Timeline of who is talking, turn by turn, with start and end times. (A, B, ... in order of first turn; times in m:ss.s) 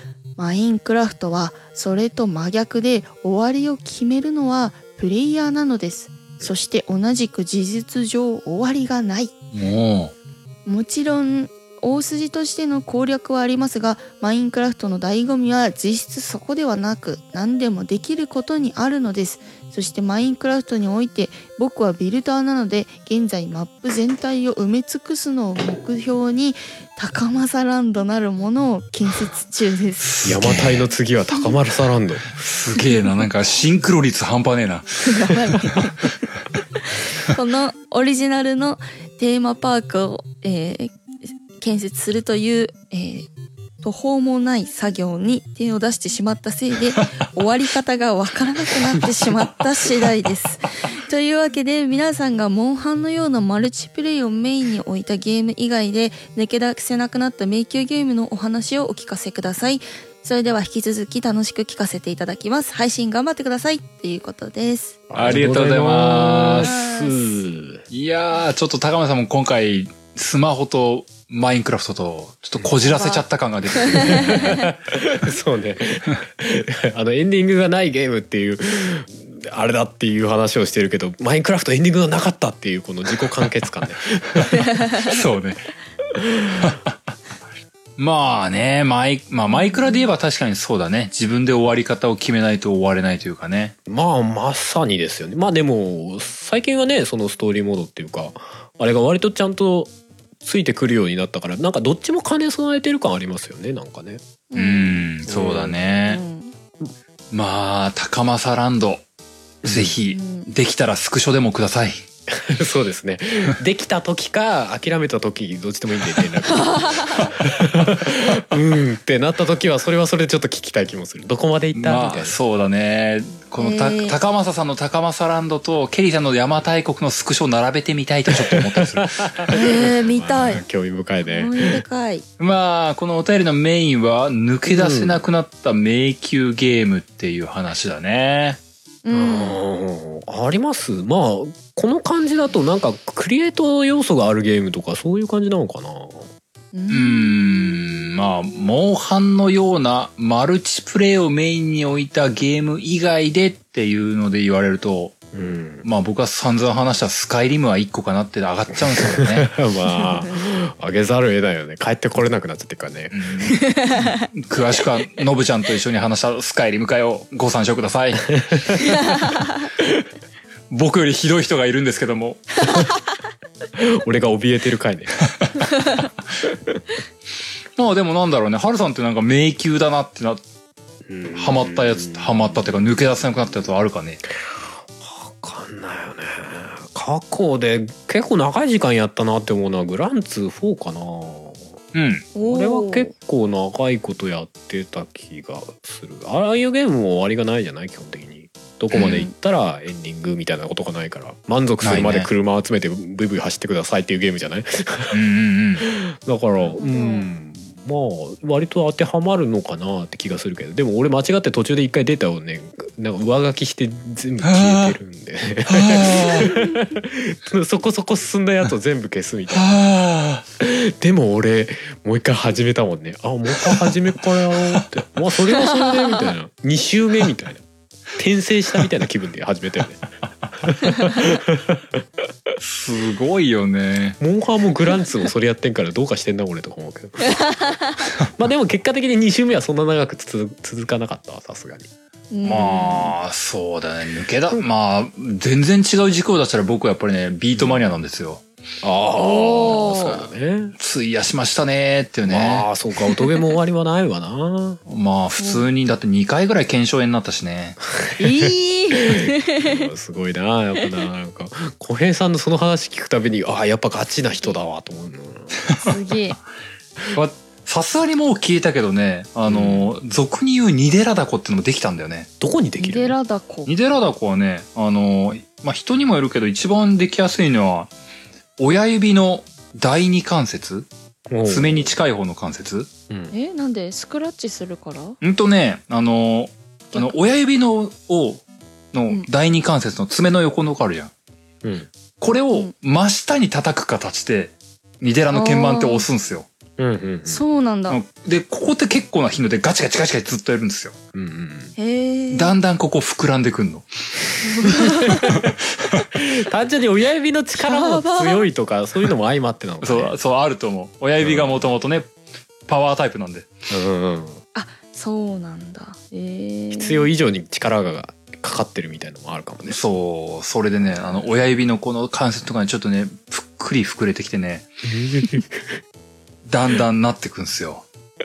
0:00.4-0:09.3 A
0:09.5-0:10.1 B
0:10.7-0:30.1 A
0:30.0-0:30.9 B
0:30.2-0:32.3 C
0:32.4-0:35.3 B
0:35.0-0:36.1 A
0:36.9-0:41.0 A
0:41.6-0:43.3 A
0:43.8-1:05.0 A
1:05.1-1:07.8 C
1:05.2-1:06.7 B
1:06.6-1:07.3 A
1:07.9-1:14.6 B
1:12.9-1:13.2 A
1:13.8-1:14.6 A
1:13.9-1:25.1 C
1:25.0-1:25.7 B
1:26.1-1:26.8 C
1:26.6-1:26.9 B
1:28.0-1:33.8 B
1:29.5-1:30.0 A
1:33.9-1:44.2 C
1:44.5-1:45.0 A
1:44.6-1:46.2 B
1:45.3-1:45.9 C
1:46.1-1:46.5 A
1:47.3-1:49.0 B
1:49.6-1:50.0 C
1:49.6-1:52.0 B
1:50.1-1:50.5 A
1:52.3-2:02.4 C
1:56.5-1:57.3 A
2:01.7-2:09.5 B
2:03.6-2:04.2 A
2:08.3-2:11.8 C
2:09.5-2:10.6 A
2:11.2-2:12.2 A
2:12.4-2:18.6 B
2:14.7-2:15.2 C
2:19.0-2:19.6 A
2:19.1-2:26.3 C
2:26.7-2:27.4 A
2:26.9-2:35.2 B
2:35.3-2:35.8 C
2:35.8-2:39.5 B
2:38.8-2:43.2 C
2:43.1-2:48.4 B
2:43.5-2:44.2 A
2:48.3-2:48.9 C
2:48.9-2:49.5 A
2:50.7-2:52.6 B
2:53.7-2:55.2 C
2:55.8-2:56.0 A
2:56.4-2:56.8 C
2:57.8-3:00.4 B
3:01.1-3:02.8 C
3:01.3-3:04.2 B
3:04.3-3:11.8 C
3:11.9-3:12.3 B
3:12.3-3:13.1 A
3:12.4-3:25.2 C
3:18.9-3:19.2 B
3:18.9-3:19.3 A
3:21.8-3:22.3 B
3:25.1-3:25.9 B
3:25.8-3:39.7 C
3:26.6-3:27.3 A
3:34.4-3:35.0 B
3:35.7-3:36.5 B
3:39.5-3:40.4 B
3:40.6-3:47.6 C
3:43.6-3:43.9 B
3:44.5-3:44.9 B
3:45.6-3:46.2 A
3:48.2-3:50.0 C
3:50.6-3:52.5 C
3:52.6-3:54.2 B
3:54.2-3:57.6 C
3:57.4-3:57.8 A
3:58.4-4:01.9 C
4:02.3-4:03.1 A
4:02.4-4:08.4 B
4:07.5-4:07.9 C
4:08.8-4:10.8 C
4:09.2-4:10.2 A
4:09.6-4:10.2 B
4:10.8-4:12.7 B
4:12.3-4:14.8 C
4:14.9-4:17.8 B
4:15.4-4:15.7 A
4:18.0-4:25.6 C
4:18.2-4:19.9 A
4:25.8-4:26.4 A
4:27.1-4:32.3 B
4:29.5-4:29.9 C
4:32.4-4:33.2 C
4:32.8-4:33.7 A
4:33.7-4:37.9 B
4:38.6-4:40.9 B
4:41.3-4:42.0 C
4:41.4-4:42.9 B
4:43.3-4:45.2 A
4:45.2-4:51.1 B
4:51.6-4:51.9 C
4:52.2-4:56.5 B
4:55.3-4:56.0 A
4:56.8-4:57.4 C
4:57.3-4:58.0 A
4:57.9-5:01.0 B
5:01.1-5:01.7 C
5:01.8-5:02.5 A
5:02.3-5:03.9 B
5:04.4-5:05.3 A
5:04.6-5:05.5 C
5:05.3-5:06.1 B
5:06.1-5:10.2 C
5:07.6-5:08.5 A
5:09.8-5:12.1 B
5:11.2-5:11.7 C
5:12.7-5:13.5 B
5:13.7-5:14.4 C
5:14.6-5:17.1 A
5:16.7-5:19.8 C
5:19.7-5:24.7 B
5:20.9-5:21.3 C
5:24.9-5:25.8 C
5:26.5-5:27.8 B